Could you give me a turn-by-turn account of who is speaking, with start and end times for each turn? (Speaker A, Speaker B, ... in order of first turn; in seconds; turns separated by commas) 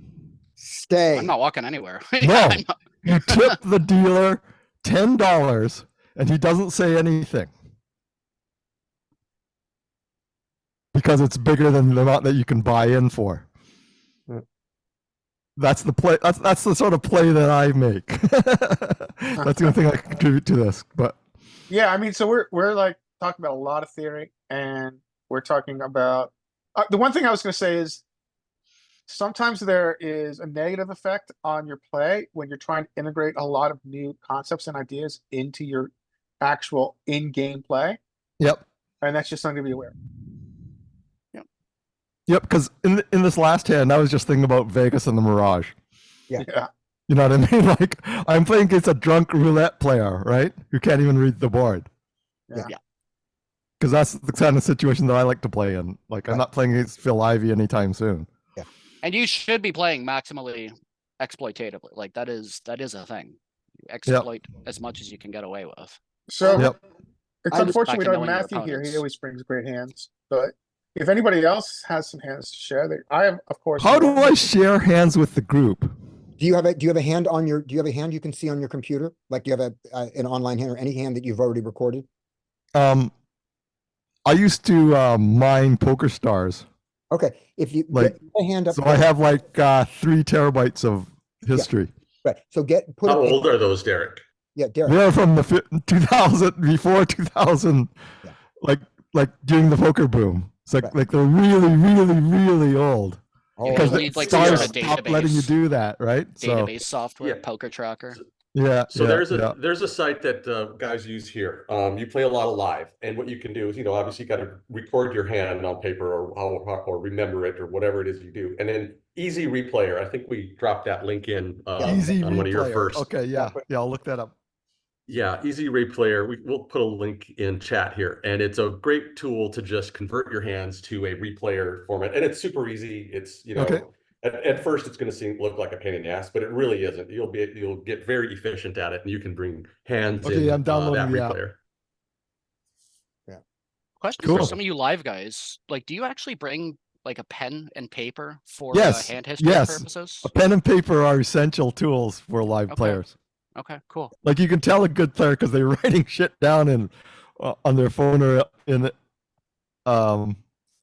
Speaker A: 0.6-1.3, Speaker B: 1.1-3.5, Speaker C: 2.2-7.5, Speaker C: 10.9-13.4, Speaker C: 15.6-21.2, Speaker D: 19.4-19.8, Speaker D: 21.7-28.0, Speaker D: 29.1-38.0, Speaker C: 38.4-38.6, Speaker D: 39.0-39.9, Speaker C: 42.3-45.7, Speaker D: 46.4-46.7, Speaker C: 47.1-51.9, Speaker C: 53.8-58.3, Speaker B: 59.0-66.6, Speaker D: 66.3-66.8, Speaker D: 67.4-74.4, Speaker B: 67.5-69.0, Speaker C: 73.8-75.9, Speaker A: 76.4-82.1, Speaker C: 82.8-83.1, Speaker C: 84.3-86.7, Speaker A: 87.1-89.1, Speaker C: 87.9-88.2, Speaker C: 88.7-91.9, Speaker A: 92.2-93.5, Speaker E: 93.0-94.2, Speaker A: 94.6-95.0, Speaker C: 94.8-97.9, Speaker C: 98.6-106.7, Speaker A: 103.6-104.4, Speaker B: 103.6-105.5, Speaker E: 104.2-104.8, Speaker B: 106.4-108.2, Speaker E: 107.2-107.5, Speaker C: 108.5-109.5, Speaker E: 108.9-123.1, Speaker A: 121.8-122.1, Speaker C: 121.8-124.3, Speaker A: 123.3-123.6, Speaker E: 125.1-141.6, Speaker C: 133.6-133.8, Speaker C: 140.2-141.4, Speaker B: 144.0-150.3, Speaker E: 144.2-144.6, Speaker C: 144.2-144.6, Speaker C: 148.7-153.1, Speaker B: 152.7-153.0, Speaker B: 153.6-154.1, Speaker C: 154.2-158.9, Speaker C: 159.9-160.4